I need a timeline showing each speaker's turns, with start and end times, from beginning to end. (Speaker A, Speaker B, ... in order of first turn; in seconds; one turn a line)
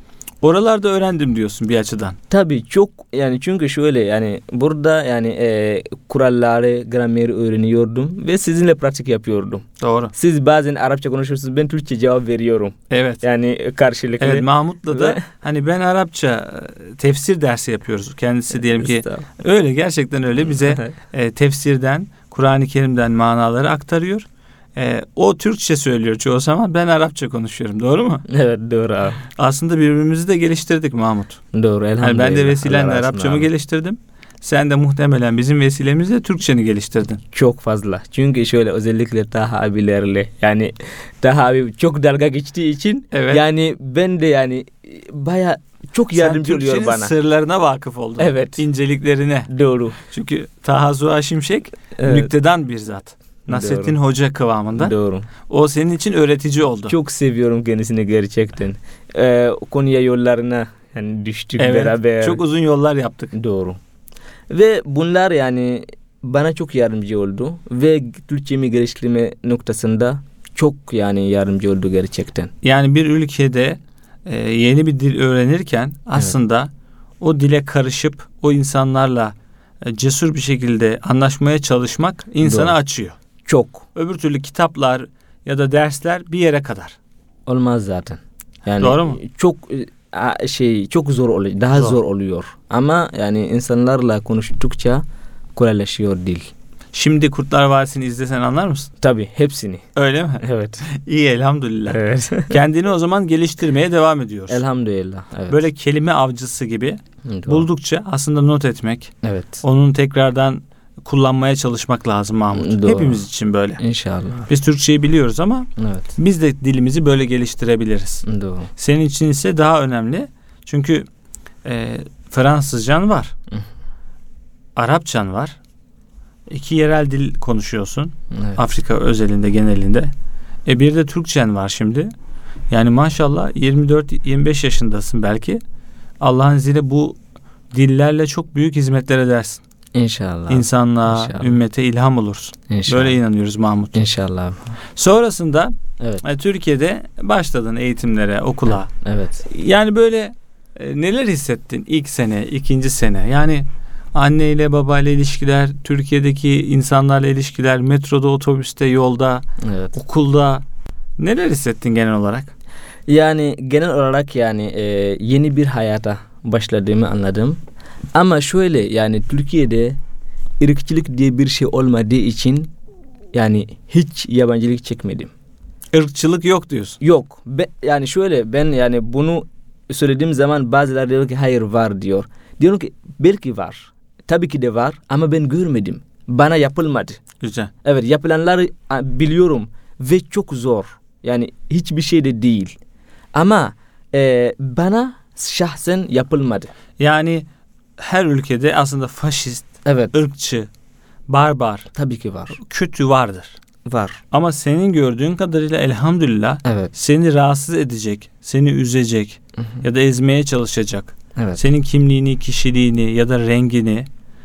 Speaker A: 0.4-2.2
Speaker B: 2.3-15.2
Speaker A: 9.8-10.1
Speaker A: 12.9-13.2
Speaker A: 14.2-28.3
Speaker B: 18.7-19.3
Speaker B: 20.5-20.9
Speaker B: 28.3-29.2
Speaker A: 29.4-31.4
Speaker B: 31.5-33.5
Speaker A: 32.0-37.2
Speaker B: 37.3-47.1
Speaker A: 43.1-43.4
Speaker A: 46.1-54.9
Speaker B: 48.2-48.6
Speaker B: 49.5-50.0
Speaker B: 52.0-52.3
Speaker B: 53.5-54.0
Speaker B: 54.8-55.3
Speaker A: 55.5-57.0
Speaker B: 56.9-62.4
Speaker A: 61.6-63.3
Speaker B: 63.3-63.8
Speaker B: 64.5-72.5
Speaker A: 72.6-76.7
Speaker A: 77.2-83.2
Speaker B: 82.4-82.8
Speaker B: 83.5-83.9
Speaker A: 84.0-87.0
Speaker B: 87.5-95.0
Speaker A: 88.8-89.2
Speaker B: 95.5-96.5
Speaker A: 96.9-98.9
Speaker B: 99.0-99.9
Speaker A: 100.0-104.6
Speaker B: 100.4-100.8
Speaker B: 101.9-102.5
Speaker B: 104.5-105.6
Speaker A: 105.5-113.8
Speaker B: 107.2-107.7
Speaker B: 109.2-109.6
Speaker B: 112.5-113.2
Speaker B: 113.8-114.5
Speaker A: 114.5-118.2
Speaker B: 115.8-116.1
Speaker B: 118.3-118.7
Speaker A: 118.8-121.1
Speaker A: 121.6-123.3
Speaker A: 124.8-125.6
Speaker A: 126.5-130.1
Speaker B: 128.3-128.6
Speaker A: 130.7-132.1
Speaker A: 132.7-135.6
Speaker A: 136.2-137.2
Speaker A: 137.7-139.6
Speaker B: 139.9-141.6
Speaker A: 140.5-144.0
Speaker B: 142.7-143.2
Speaker B: 143.9-144.8
Speaker A: 144.9-148.9
Speaker B: 148.7-149.4
Speaker A: 149.4-160.6
Speaker B: 159.6-159.9
Speaker A: 161.2-162.5
Speaker B: 163.1-167.6
Speaker B: 168.1-170.0
Speaker B: 170.6-172.7
Speaker B: 173.3-175.3
Speaker A: 175.9-177.0
Speaker B: 177.0-187.2
Speaker A: 187.4-187.7
Speaker B: 187.8-192.8
Speaker B: 193.3-196.7
Speaker A: 197.0-197.4
Speaker A: 198.0-200.7
Speaker B: 199.8-200.1
Speaker A: 201.3-201.9
Speaker B: 201.9-202.6
Speaker A: 202.5-203.6
Speaker B: 203.8-204.2
Speaker A: 204.3-214.1
Speaker B: 206.6-206.9
Speaker B: 211.3-211.6